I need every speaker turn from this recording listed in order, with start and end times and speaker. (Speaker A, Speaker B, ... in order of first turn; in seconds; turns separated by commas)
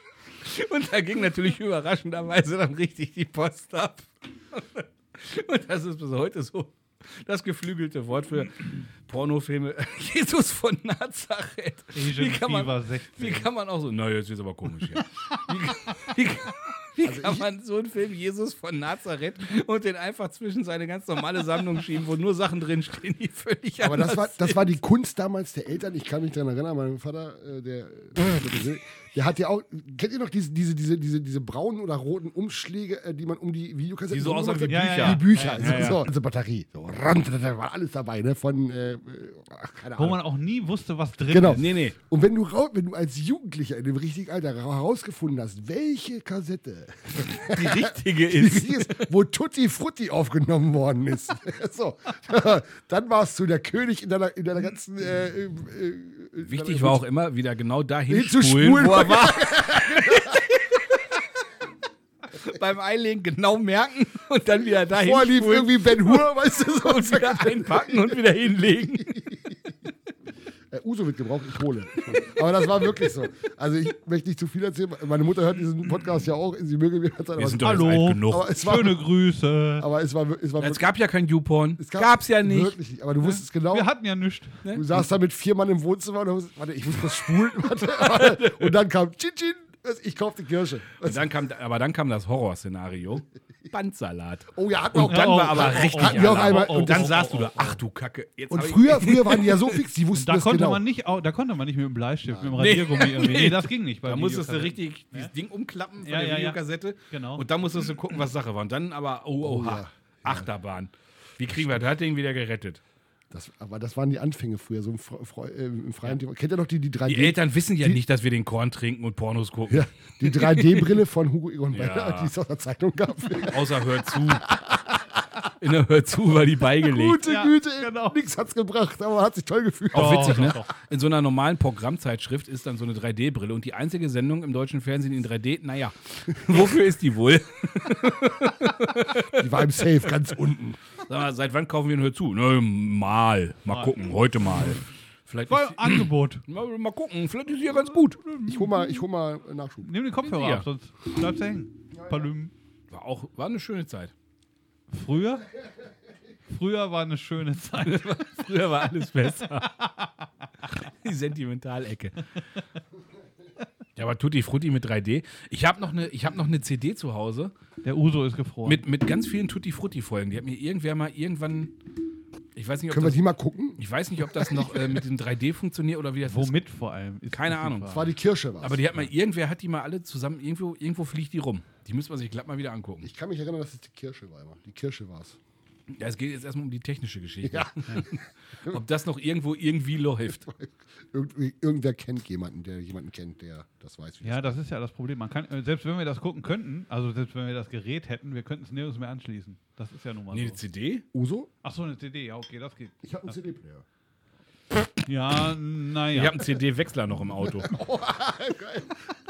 Speaker A: 0.4-24.7, Speaker B: 11.9-13.5, Speaker C: 17.0-17.5, Speaker C: 23.8-40.2, Speaker A: 34.1-36.0, Speaker B: 34.7-36.0, Speaker B: 40.0-41.7, Speaker C: 41.3-57.0, Speaker A: 41.5-42.0, Speaker A: 47.4-49.1, Speaker A: 56.4-61.0, Speaker C: 58.1-60.5, Speaker A: 62.3-69.3, Speaker C: 64.9-68.2, Speaker C: 68.8-69.5, Speaker C: 70.7-79.1, Speaker A: 77.4-78.5, Speaker B: 77.6-79.9, Speaker C: 79.8-80.8, Speaker A: 80.6-82.8, Speaker C: 81.8-83.9, Speaker B: 83.2-84.6, Speaker A: 84.6-85.0, Speaker C: 84.7-91.3, Speaker A: 88.0-88.7, Speaker A: 91.0-99.8, Speaker C: 94.5-97.2, Speaker B: 95.0-97.8, Speaker C: 98.5-100.8, Speaker B: 100.1-105.3, Speaker C: 102.3-102.6, Speaker A: 102.6-112.8, Speaker B: 106.0-106.6, Speaker B: 107.1-107.5, Speaker C: 109.4-110.5, Speaker C: 113.3-118.0, Speaker A: 117.1-121.0, Speaker C: 119.7-125.4, Speaker A: 121.7-122.3, Speaker A: 123.4-124.5, Speaker A: 125.6-127.2, Speaker C: 126.8-130.6, Speaker B: 127.2-128.2, Speaker B: 129.9-130.7, Speaker A: 129.9-139.9, Speaker C: 139.3-140.8, Speaker A: 141.1-148.2, Speaker B: 143.7-144.0, Speaker B: 145.5-146.4, Speaker B: 148.2-149.0, Speaker C: 148.5-149.9, Speaker B: 149.8-152.5, Speaker A: 150.2-150.7, Speaker A: 152.9-154.1, Speaker B: 154.9-155.5, Speaker B: 156.5-158.2, Speaker A: 157.8-159.8, Speaker B: 159.8-160.1, Speaker A: 160.7-162.3, Speaker A: 164.0-167.5, Speaker B: 167.8-168.8, Speaker A: 168.7-171.8, Speaker A: 172.6-173.2, Speaker C: 172.9-175.0, Speaker A: 173.8-176.6, Speaker B: 176.3-178.1, Speaker A: 177.3-178.0, Speaker C: 177.9-179.0, Speaker A: 178.6-183.1, Speaker C: 183.0-185.4, Speaker A: 185.9-190.4, Speaker C: 187.4-188.8, Speaker C: 190.3-194.6, Speaker B: 194.2-200.6, Speaker A: 200.3-201.1, Speaker C: 201.1-201.5, Speaker B: 201.6-203.3, Speaker C: 203.0-203.8, Speaker B: 205.1-206.4, Speaker A: 206.1-207.7, Speaker C: 207.5-209.1